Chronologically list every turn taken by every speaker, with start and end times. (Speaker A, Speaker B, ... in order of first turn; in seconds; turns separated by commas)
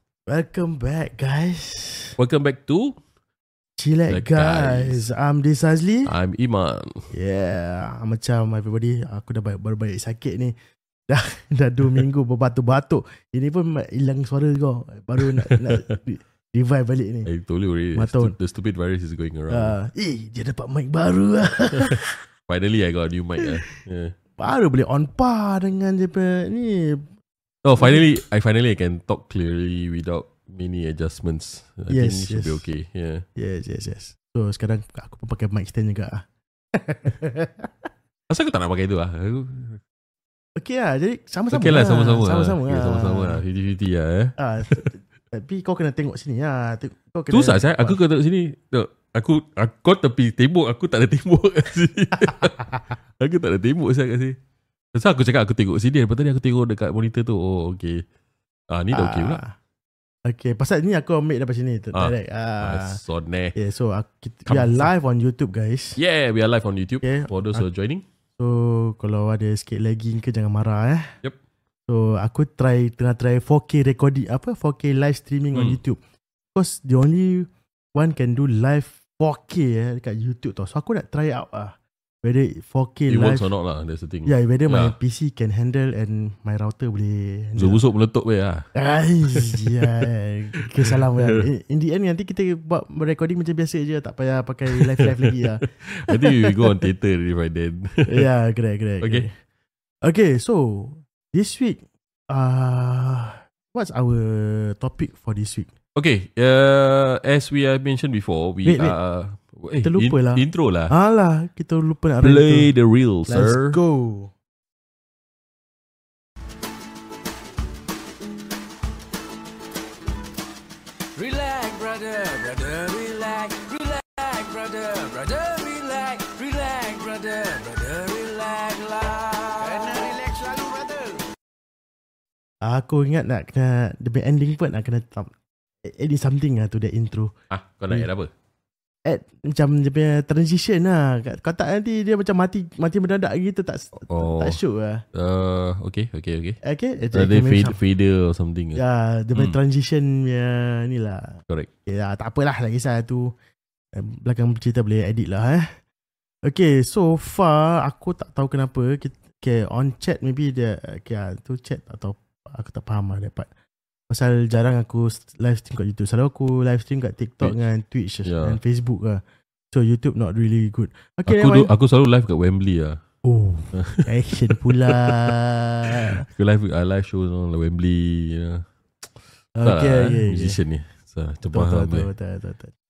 Speaker A: 0.3-2.2, Speaker B: 2.2-3.0, Speaker A: 3.8-6.1, Speaker B: 4.1-5.0, Speaker B: 6.0-7.1, Speaker A: 7.1-10.6, Speaker A: 11.1-17.3, Speaker B: 17.2-19.8, Speaker A: 17.9-18.3, Speaker A: 19.5-22.2, Speaker B: 22.5-24.2, Speaker A: 24.4-27.1, Speaker B: 27.6-33.2, Speaker A: 27.8-28.1, Speaker A: 31.9-32.6, Speaker A: 33.4-37.7, Speaker B: 38.3-39.8, Speaker A: 40.5-43.4, Speaker B: 41.5-44.8, Speaker A: 44.4-48.0, Speaker B: 47.3-54.4, Speaker B: 54.9-58.0, Speaker B: 58.7-59.4, Speaker A: 58.9-59.5, Speaker A: 60.2-63.0, Speaker B: 61.9-63.5, Speaker A: 63.5-66.0, Speaker B: 64.5-64.9, Speaker B: 66.0-68.0, Speaker A: 67.0-67.7, Speaker A: 68.4-71.1, Speaker A: 71.9-76.0, Speaker B: 75.5-75.8, Speaker A: 76.5-83.5, Speaker B: 83.1-84.9, Speaker A: 84.2-87.8, Speaker B: 87.6-88.7, Speaker A: 88.8-95.7, Speaker B: 89.3-90.1, Speaker B: 90.6-91.4, Speaker B: 94.7-98.3, Speaker A: 98.1-99.3, Speaker B: 99.0-99.3, Speaker A: 100.0-105.7, Speaker B: 106.0-110.9, Speaker A: 108.6-109.0, Speaker A: 109.8-112.7, Speaker B: 112.2-113.8, Speaker A: 113.3-114.3, Speaker C: 121.2-131.2, Speaker A: 132.6-135.3, Speaker A: 135.8-137.3, Speaker B: 137.5-138.3, Speaker A: 139.0-145.0, Speaker B: 144.1-144.6, Speaker B: 145.1-146.6, Speaker A: 146.6-147.8, Speaker B: 147.1-148.8, Speaker A: 148.8-153.3, Speaker A: 153.9-155.7, Speaker A: 156.4-163.5, Speaker A: 164.1-171.7, Speaker B: 168.2-168.6, Speaker B: 171.3-173.0, Speaker A: 173.2-176.2, Speaker B: 173.7-175.1, Speaker B: 176.1-178.7, Speaker A: 179.5-180.6, Speaker B: 179.6-182.1, Speaker A: 181.5-182.7